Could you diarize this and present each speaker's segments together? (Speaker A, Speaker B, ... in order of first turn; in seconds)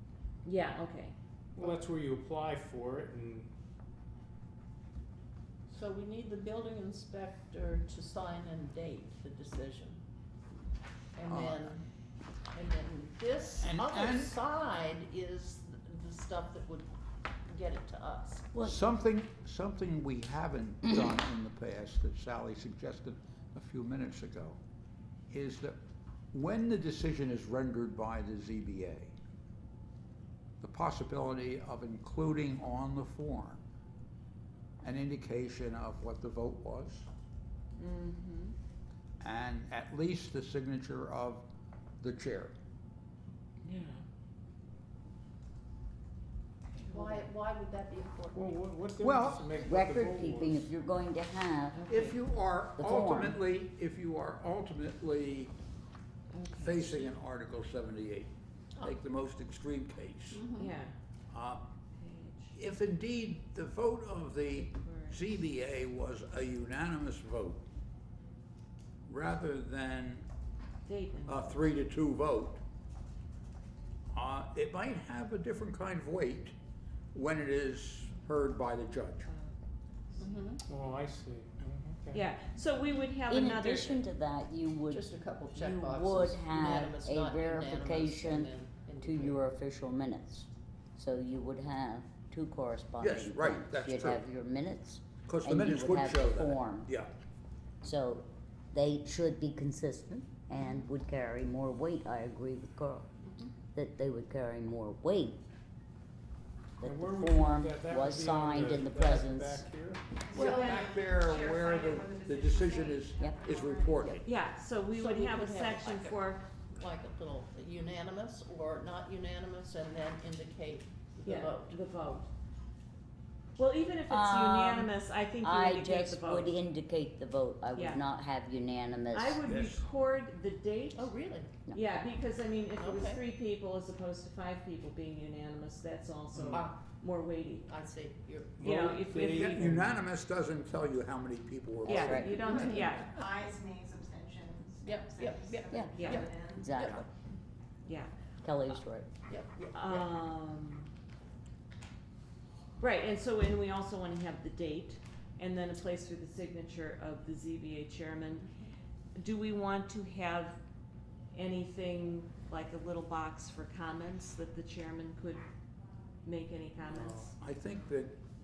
Speaker A: 0.4-1.1, 37.8-38.5, 43.6-44.0, 46.8-47.3, 51.7-52.1, 56.3-57.1, 60.6-60.9, 62.0-62.6, 64.6-65.2, 70.8-71.6, 79.3-79.6, 82.1-84.0, 110.3-110.8, 114.2-116.4, 121.2-122.3, 123.6-126.5, 127.8-128.0, 129.1-131.1, 131.7-137.7, 138.6-139.8, 141.8-143.3, 145.9-146.3, 147.8-148.1, 149.7-150.9, 152.8-158.5, 159.2-160.6, 161.3-165.4, 166.2-167.3
Speaker B: 1.6-3.5, 48.3-50.7, 80.7-82.3, 106.8-110.2, 136.3-136.6, 138.6-140.0, 166.9-167.3
Speaker C: 5.7-10.0, 11.1-11.8, 12.5-16.9, 17.4-18.5, 46.9-48.5, 60.3-60.7, 80.2-80.6, 84.9-89.4, 110.4-110.8, 114.9-121.7, 130.9-131.5, 132.8-133.2, 136.4-136.8, 137.7-138.6, 142.5-142.9, 144.8-147.1, 149.3-150.1
Speaker D: 11.3-11.7, 13.6-14.3, 18.6-24.6, 25.3-25.8, 26.3-29.1, 30.6-33.6, 34.8-37.1, 39.2-41.5, 42.0-42.5, 49.0-49.5, 51.9-55.5, 56.6-60.4, 61.3-61.6, 62.5-67.6, 69.1-70.2, 71.3-72.6, 74.1-76.5, 77.1-79.3, 93.0-94.2, 95.2-97.1, 110.3-114.2, 129.4-129.8, 139.3-142.9, 167.3-168.2
Speaker E: 18.5-18.8, 49.6-51.8, 52.8-53.4, 83.3-96.9, 97.8-103.1, 103.7-105.4, 106.8-109.7, 124.1-129.4, 141.9-142.6, 145.7-147.0, 148.4-149.1